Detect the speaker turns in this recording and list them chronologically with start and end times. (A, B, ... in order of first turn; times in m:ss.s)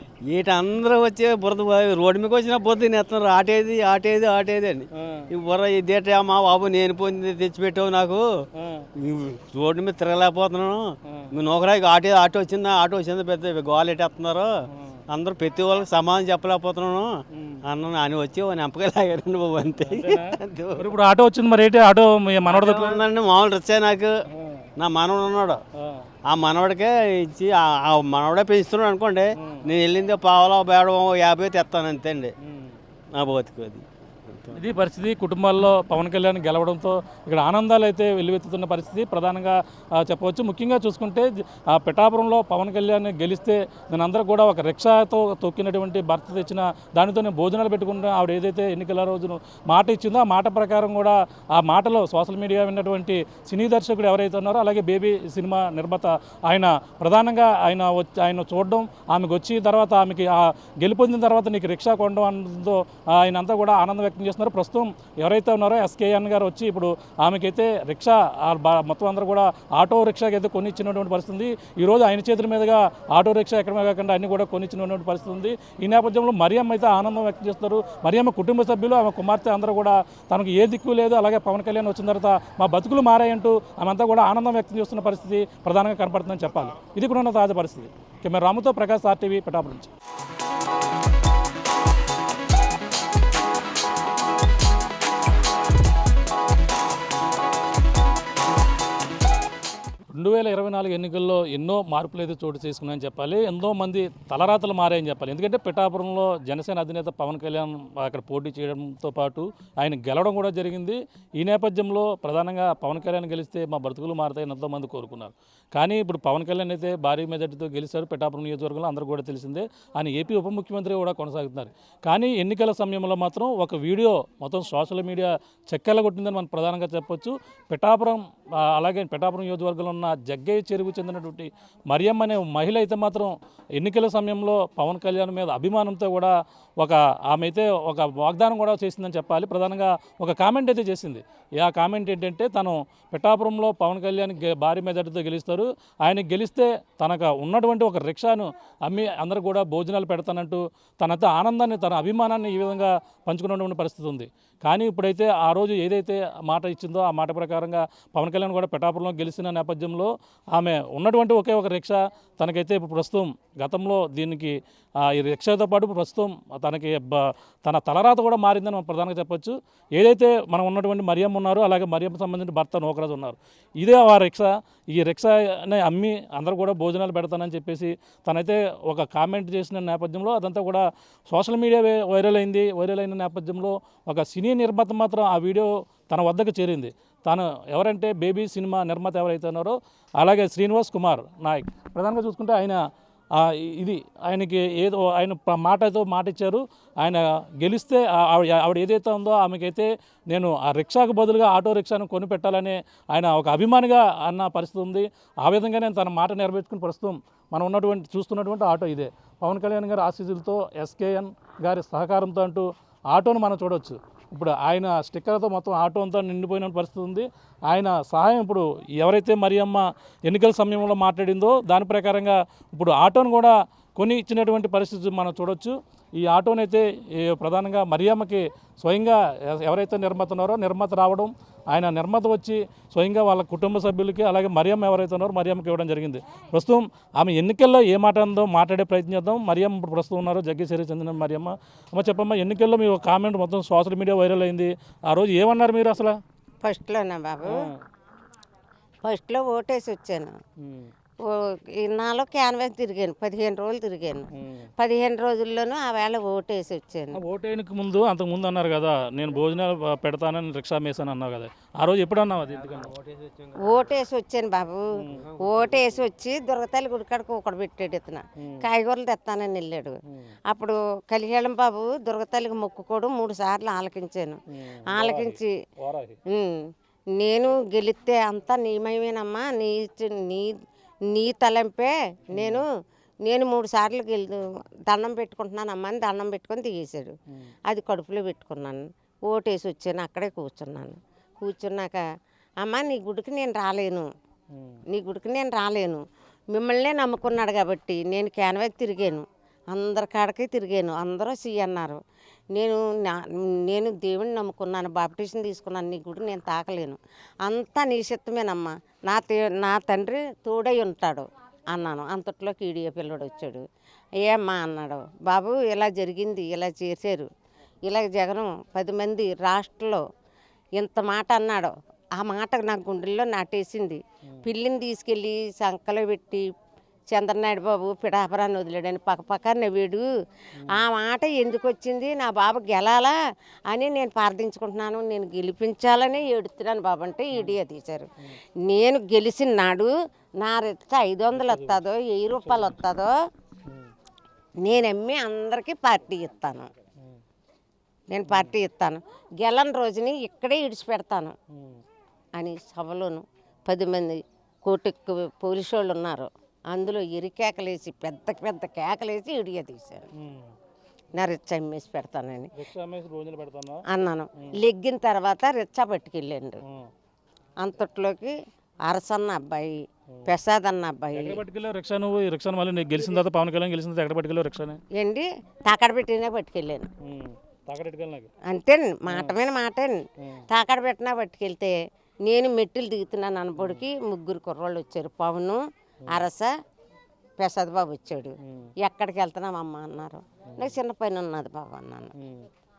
0:00.2-0:08.2 A
0:05.0-0:05.3 B
0:08.6-0:08.9 B
0:09.0-0:14.5 A
0:14.7-0:15.0 B
0:15.1-0:17.1 A
0:17.3-0:17.6 B
0:17.6-0:20.8 A
0:19.8-0:23.0 B
0:22.5-0:24.1 A
0:24.3-0:24.7 B
0:24.8-0:25.6 A
0:25.8-0:26.1 B
0:26.3-0:32.3 A
0:29.4-0:29.7 B
0:32.4-0:32.8 B
0:33.1-0:34.6 A
0:34.5-1:29.9 B
1:40.1-3:12.8 B
3:13.3-4:06.2 B
4:06.6-4:07.7 C
4:07.4-4:07.7 B
4:09.0-4:10.4 C
4:10.6-4:10.9 B
4:11.2-4:17.2 C
4:14.4-4:14.7 B
4:17.1-4:22.9 B
4:22.6-4:23.8 A
4:23.6-4:35.5 C
4:25.0-4:25.2 B
4:25.1-4:26.0 A
4:28.4-4:28.7 B
4:34.5-4:36.2 B
4:36.3-4:40.5 C
4:41.1-4:42.7 C
4:42.3-4:42.6 B
4:43.2-4:47.1 C
4:47.6-4:52.0 C
4:52.6-4:54.1 C
4:54.5-4:54.8 B
4:54.9-5:02.0 C
5:02.5-5:13.6 C
5:14.2-5:17.3 C
5:17.9-5:20.0 C
5:20.8-5:26.5 C
5:27.1-5:30.1 C
5:30.7-5:33.2 C
5:33.7-5:38.1 C
5:38.6-5:43.1 C
5:41.3-5:41.8 B
5:42.4-5:42.7 B
5:44.6-5:46.7 C
5:48.1-5:51.4 C
5:48.2-5:48.5 B
5:51.5-5:51.8 B
5:52.4-6:00.1 C
6:00.2-6:00.5 B
6:01.1-6:02.5 C
6:02.6-6:03.8 B
6:03.9-6:06.6 C
6:07.6-6:11.4 C
6:11.1-6:14.8 B
6:14.9-6:16.9 C
6:17.0-6:18.3 B
6:18.5-6:26.5 C
6:19.1-6:19.3 B
6:20.2-6:20.4 B
6:23.6-6:23.8 B
6:27.4-6:32.1 C
6:28.4-6:28.7 B
6:32.2-6:32.5 B